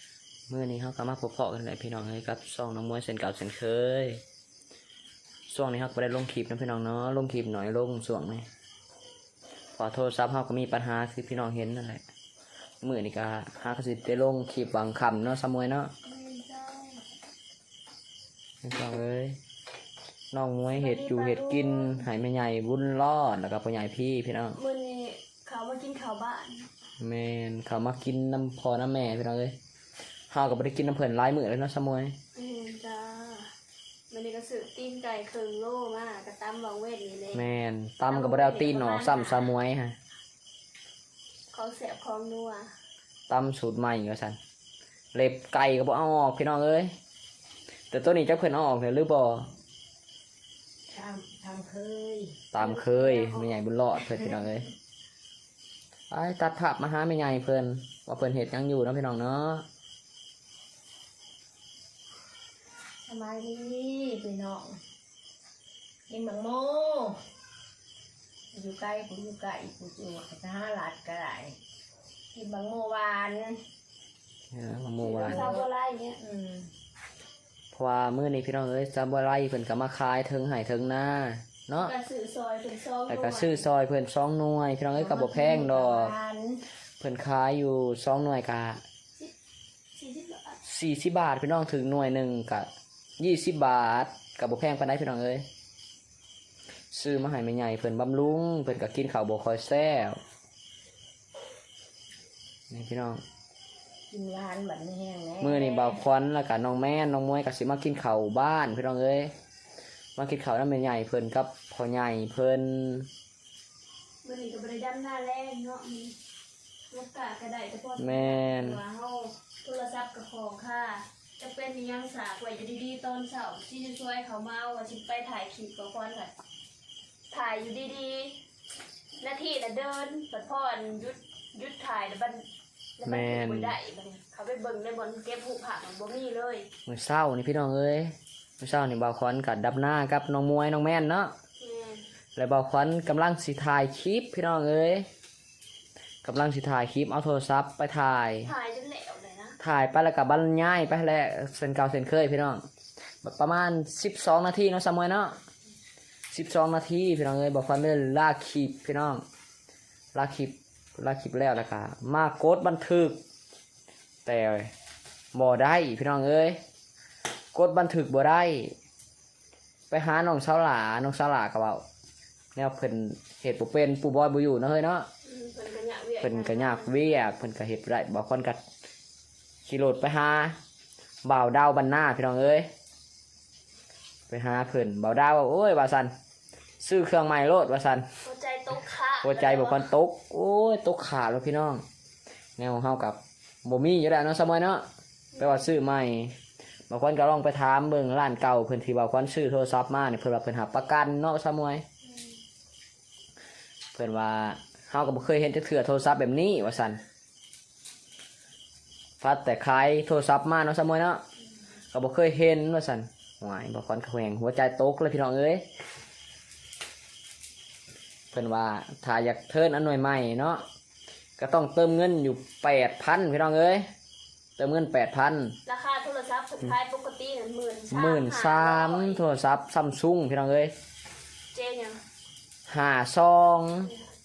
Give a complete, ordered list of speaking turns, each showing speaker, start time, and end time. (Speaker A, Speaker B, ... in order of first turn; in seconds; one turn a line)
Speaker A: 0.5-4.2
Speaker A: 5.5-8.5
Speaker A: 9.8-12.0
Speaker A: 12.8-15.9
Speaker B: 16.0-17.0
Speaker A: 18.6-19.4
Speaker A: 20.3-24.6
Speaker B: 20.8-22.1
Speaker B: 24.6-26.7
Speaker A: 27.0-29.6
Speaker A: 30.3-32.2
Speaker B: 32.4-33.5
Speaker B: 34.1-37.5
Speaker A: 37.3-40.0
Speaker B: 38.1-39.5
Speaker B: 41.5-42.7
Speaker A: 43.3-44.4
Speaker A: 45.1-46.9
Speaker A: 47.9-49.5
Speaker C: 50.9-52.4
Speaker A: 52.5-54.7
Speaker C: 52.9-53.3
Speaker A: 56.1-59.6
Speaker C: 63.1-64.8
Speaker C: 66.1-67.2
Speaker C: 68.5-71.6
Speaker C: 72.3-73.6
Speaker A: 74.5-75.5
Speaker C: 75.2-75.6
Speaker B: 75.2-76.2
Speaker C: 76.2-76.7
Speaker A: 77.7-81.9
Speaker B: 81.8-83.6
Speaker A: 83.1-86.1
Speaker C: 85.0-86.6
Speaker A: 87.0-88.8
Speaker B: 90.0-90.6
Speaker A: 90.6-92.7
Speaker A: 93.2-95.5
Speaker A: 96.9-100.2
Speaker A: 102.7-103.2
Speaker C: 104.1-106.0
Speaker A: 105.4-109.3
Speaker A: 110.2-113.1
Speaker B: 114.2-116.2
Speaker B: 116.9-126.3
Speaker A: 118.0-118.8
Speaker B: 127.3-128.4
Speaker B: 129.2-132.4
Speaker B: 133.0-136.7
Speaker A: 133.0-133.7
Speaker A: 136.9-141.3
Speaker B: 141.6-142.1
Speaker A: 142.4-145.1
Speaker A: 146.2-148.5
Speaker B: 148.4-149.6
Speaker A: 149.6-152.7
Speaker A: 153.2-155.4
Speaker A: 156.3-159.2
Speaker A: 160.1-163.2
Speaker A: 164.2-164.7
Speaker A: 165.3-166.6
Speaker A: 167.5-168.8
Speaker A: 169.9-171.8
Speaker A: 172.6-175.1
Speaker B: 175.2-177.2
Speaker A: 176.2-178.6
Speaker A: 179.7-180.6
Speaker A: 181.2-182.7
Speaker A: 184.3-186.1
Speaker A: 186.8-188.1
Speaker B: 188.2-189.9
Speaker A: 189.2-191.8
Speaker A: 192.6-194.8
Speaker B: 195.3-195.7
Speaker A: 195.4-196.4
Speaker A: 196.9-201.8
Speaker A: 203.9-207.0
Speaker A: 209.2-211.2
Speaker A: 211.9-215.7
Speaker A: 218.3-220.7
Speaker A: 221.4-223.9
Speaker A: 224.6-225.6
Speaker B: 225.7-229.2
Speaker A: 227.9-230.7
Speaker B: 231.5-232.0
Speaker A: 232.7-233.9